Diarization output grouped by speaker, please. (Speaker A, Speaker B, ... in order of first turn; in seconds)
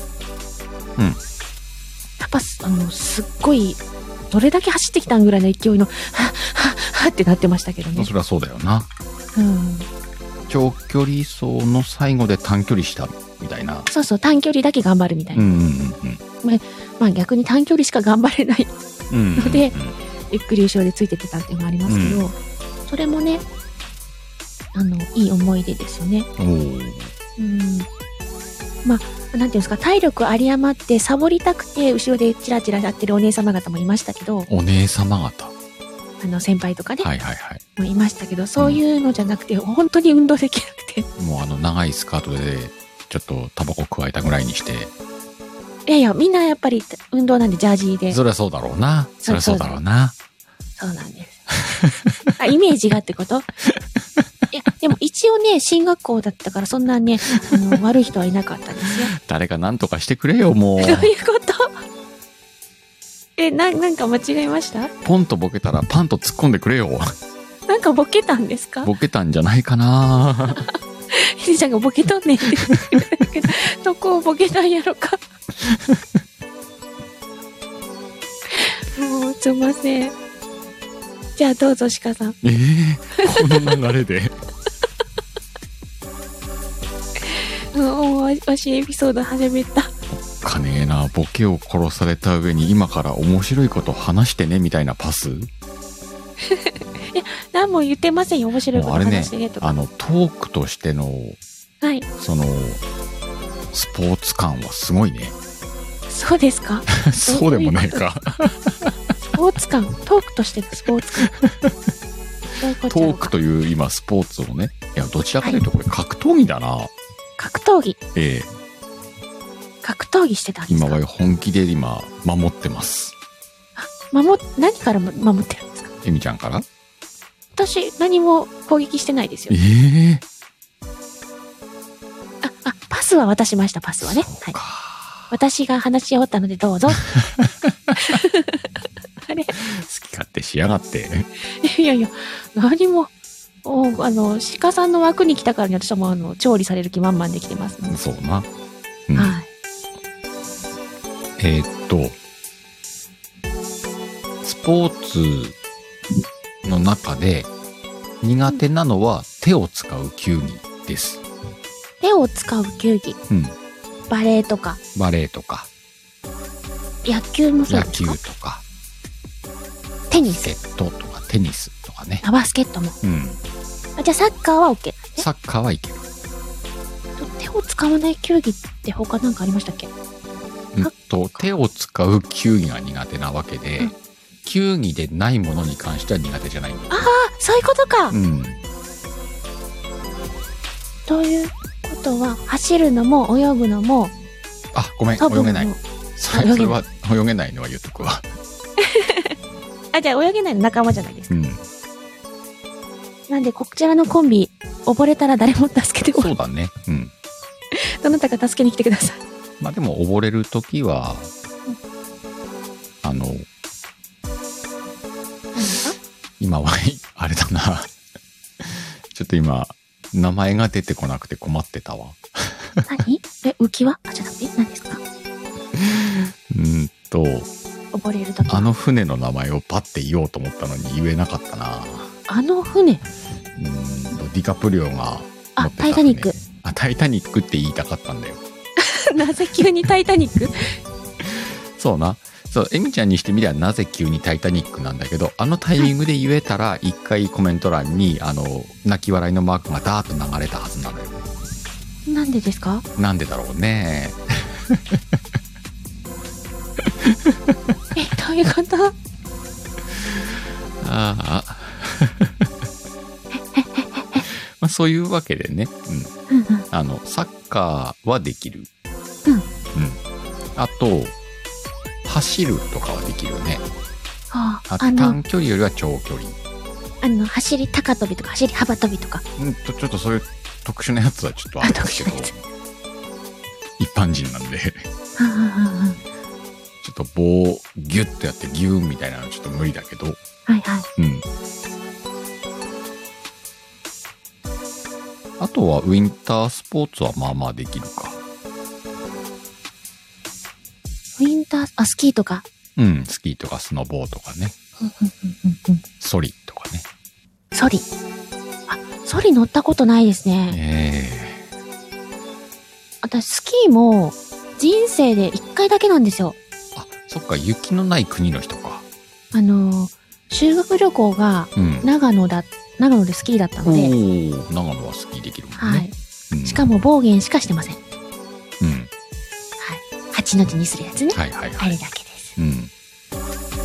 Speaker A: 2.2-8.1, 9.3-9.9, 13.9-15.5, 16.4-18.7, 19.4-19.7, 20.3-22.4, 22.9-23.4, 24.7-26.3, 27.4-27.9, 28.8-34.5, 36.2-37.1, 37.8-41.1, 45.9-48.2, 49.2-49.8, 50.8-51.4, 52.4-53.5, 54.5-59.1, 60.8-61.8, 63.4-64.9, 67.7-68.9, 70.5-75.2, 78.5-80.1, 81.4-82.4, 83.2-83.7, 87.3-89.9, 96.5-99.7, 101.8-102.1, 106.1-108.0, 109.2-111.3, 112.6-113.3, 117.4-118.0, 119.8-121.0, 123.8-125.9, 127.5-129.6, 132.4-134.6, 135.3-137.1, 138.0-138.7, 139.2-139.5, 141.6-143.1, 143.6-147.9, 149.2-149.5, 162.0-163.2, 164.1-164.8, 167.0-168.2, 170.1-170.5, 172.2-173.0, 174.0-175.2, 177.2-179.9, 180.8-181.5, 186.9-188.2, 191.1-194.1, 195.2-195.8, 196.3-196.8, 198.8-199.3, 199.9-201.3, 203.3-206.3, 207.7-209.2, 215.5-216.0, 222.8-225.0, 227.9-228.7, 232.3-233.0, 235.6-236.4, 238.8-240.8, 252.1-252.8, 257.9-258.9, 263.3-264.2, 266.3-266.6, 274.3-275.2, 277.0-279.2, 281.6-282.3, 285.2-286.0, 290.4-290.9, 301.2-302.4, 304.8-305.8, 307.5-307.9, 308.7-310.6, 313.0-316.4, 319.3-323.9, 325.6-325.9, 326.4-327.8, 329.6-332.4
Speaker B: 7.9-8.9, 10.5-13.9, 15.3-16.2, 19.1-19.9, 21.9-22.2, 26.4-27.1, 34.5-35.5, 37.0-37.6, 41.2-44.9, 48.1-50.1, 51.7-52.1, 59.1-61.1, 65.0-67.1, 68.8-70.6, 75.6-76.0, 82.4-84.3, 90.1-95.5, 98.7-101.4, 102.2-102.8, 103.7-105.3, 106.9-108.9, 111.4-111.7, 112.9-116.9, 118.1-118.5, 120.7-123.1, 126.0-126.6, 129.5-130.2, 134.0-135.3, 137.1-137.7, 139.6-141.3, 147.9-148.5, 149.1-149.4, 151.4-152.2, 154.4-155.5, 156.6-157.5, 158.2-161.2, 163.3-163.6, 164.9-165.7, 167.7-168.6, 170.1-172.2, 173.0-173.4, 175.2-176.0, 180.7-183.9, 184.4-187.1, 188.1-188.6, 194.7-198.3, 201.3-201.6, 206.1-207.1, 209.6-211.3, 213.0-213.4, 216.4-217.9, 218.6-222.8, 225.7-227.5, 228.5-232.1, 233.6-238.4, 241.2-251.1, 252.9-255.0, 256.9-257.5, 260.8-262.5, 264.3-266.1, 266.7-268.7, 269.7-270.0, 270.6-271.1, 272.0-273.6, 274.7-276.4, 279.4-282.3, 283.8-284.8, 286.8-290.2, 291.0-291.2, 295.4-298.2, 302.8-304.5, 306.0-306.8, 310.5-311.4, 316.7-318.8, 321.6-321.9, 323.6-326.6, 328.6-328.9, 331.1-331.7, 332.4-332.7